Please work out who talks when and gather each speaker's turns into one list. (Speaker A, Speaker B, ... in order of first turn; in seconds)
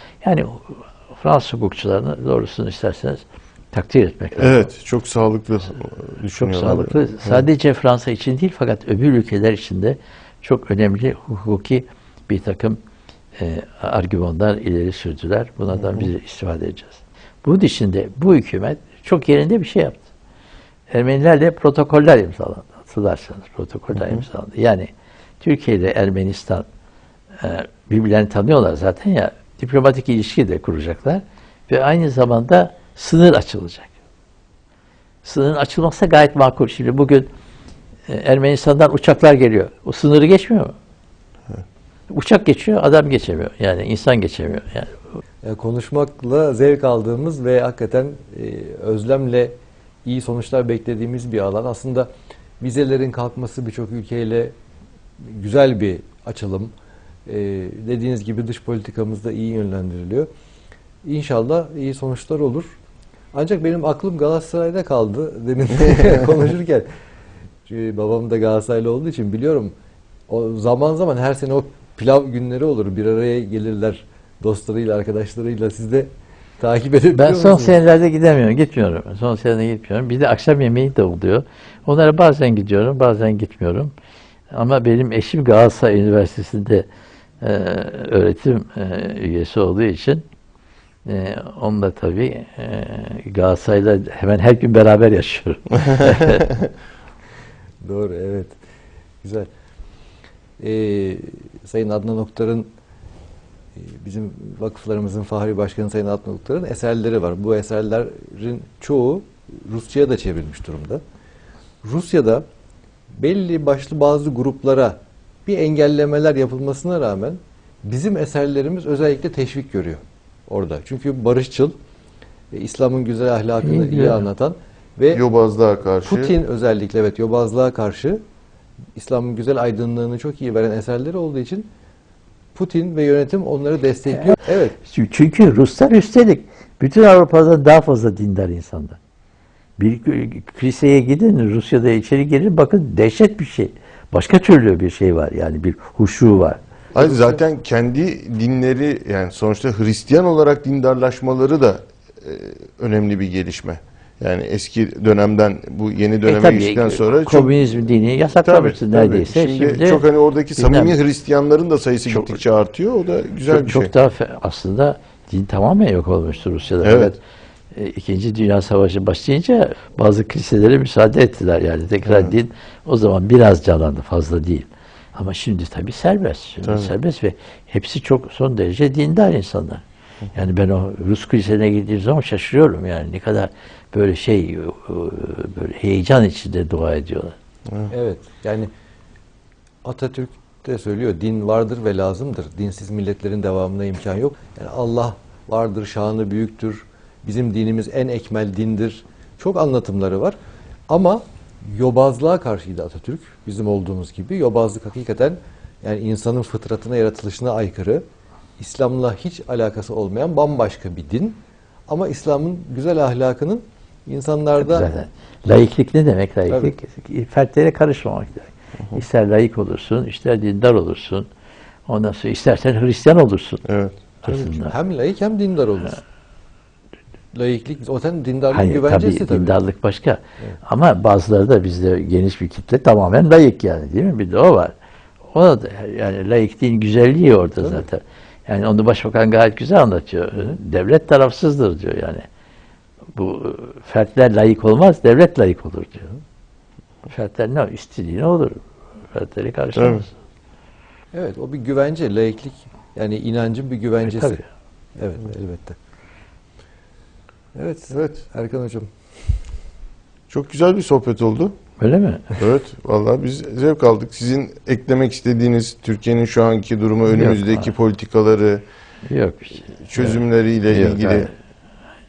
Speaker A: 0.2-4.7, 6.4-12.8, 13.3-20.0, 20.9-24.9, 25.4-26.6, 27.4-33.9, 35.2-37.3, 38.1-40.7, 42.1-44.9, 77.1-83.9, 84.5-86.8, 87.4-90.2, 91.0-96.6, 123.6-124.2, 134.2-139.0, 139.8-146.6, 156.2-160.9, 162.1-162.4, 163.4-167.2, 167.7-179.8, 180.3-187.3, 214.6-221.3, 221.9-223.6, 224.2-224.7, 228.5-234.7, 235.3-242.2, 243.1-246.1, 247.1-248.6, 249.1-250.1, 254.0-254.4, 261.8-262.3, 267.1-267.7, 269.1-271.3
Speaker B: 4.3-7.4, 125.1-126.3, 146.9-157.5, 158.4-163.9, 166.8-167.1, 172.0-172.3, 176.6-176.9, 223.6-224.0, 249.7-250.1, 260.3-261.6, 262.4-268.6, 269.8-271.3
Speaker C: 45.4-52.1, 52.6-54.5, 55.2-56.7, 57.2-60.3, 61.0-62.7, 63.3-66.9, 67.7-69.7, 70.3-77.8, 97.8-98.6, 99.2-99.5, 100.6-102.7, 103.8-111.0, 111.8-112.5, 113.2-121.7, 122.5-125.2, 126.0-128.2, 128.9-131.7, 132.5-134.8, 147.0-147.4, 187.9-188.7, 189.8-200.4, 200.9-208.0, 208.6-214.9, 216.5-216.7, 224.3-226.0, 227.3-229.6, 251.1-254.4, 255.0-255.8, 257.5-259.4